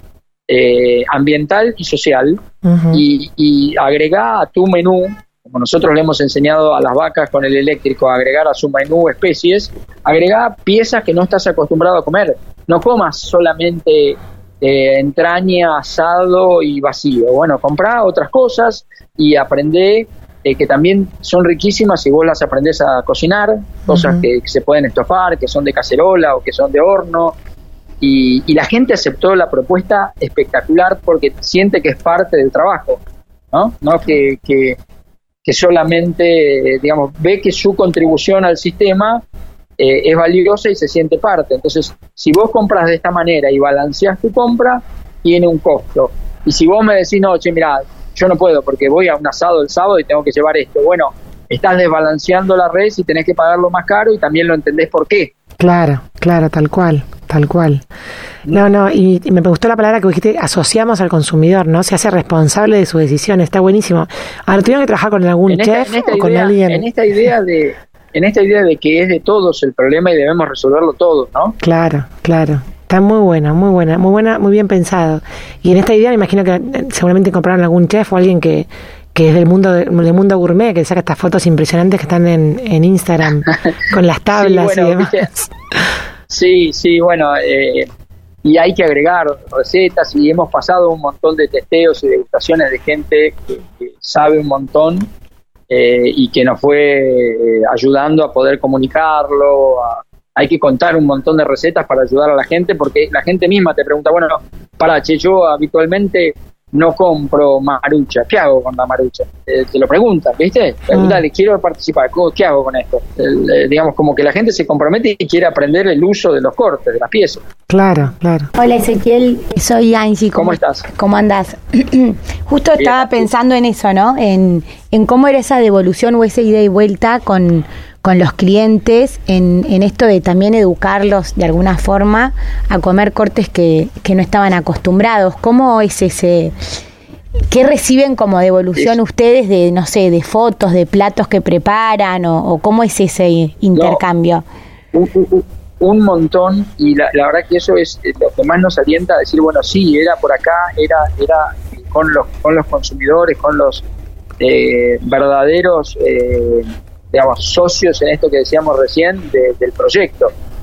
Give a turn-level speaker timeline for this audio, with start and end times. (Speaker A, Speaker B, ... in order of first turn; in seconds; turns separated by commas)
Speaker A: 0.5-27.4, Speaker B: 2.6-3.0, Speaker B: 23.9-24.2, Speaker A: 28.0-33.0, Speaker A: 33.5-34.8, Speaker A: 35.4-39.2, Speaker A: 39.8-55.3, Speaker B: 55.6-57.8, Speaker B: 58.5-66.9, Speaker A: 65.5-71.6, Speaker B: 71.6-85.5, Speaker A: 84.3-85.3, Speaker A: 86.3-87.9, Speaker A: 88.4-95.1, Speaker A: 95.7-117.4, Speaker B: 110.9-111.2, Speaker B: 117.7-118.5, Speaker C: 118.6-136.5, Speaker A: 120.3-120.9, Speaker A: 122.8-123.3, Speaker C: 137.5-144.5, Speaker A: 143.8-144.0, Speaker A: 144.9-153.8, Speaker A: 154.4-160.3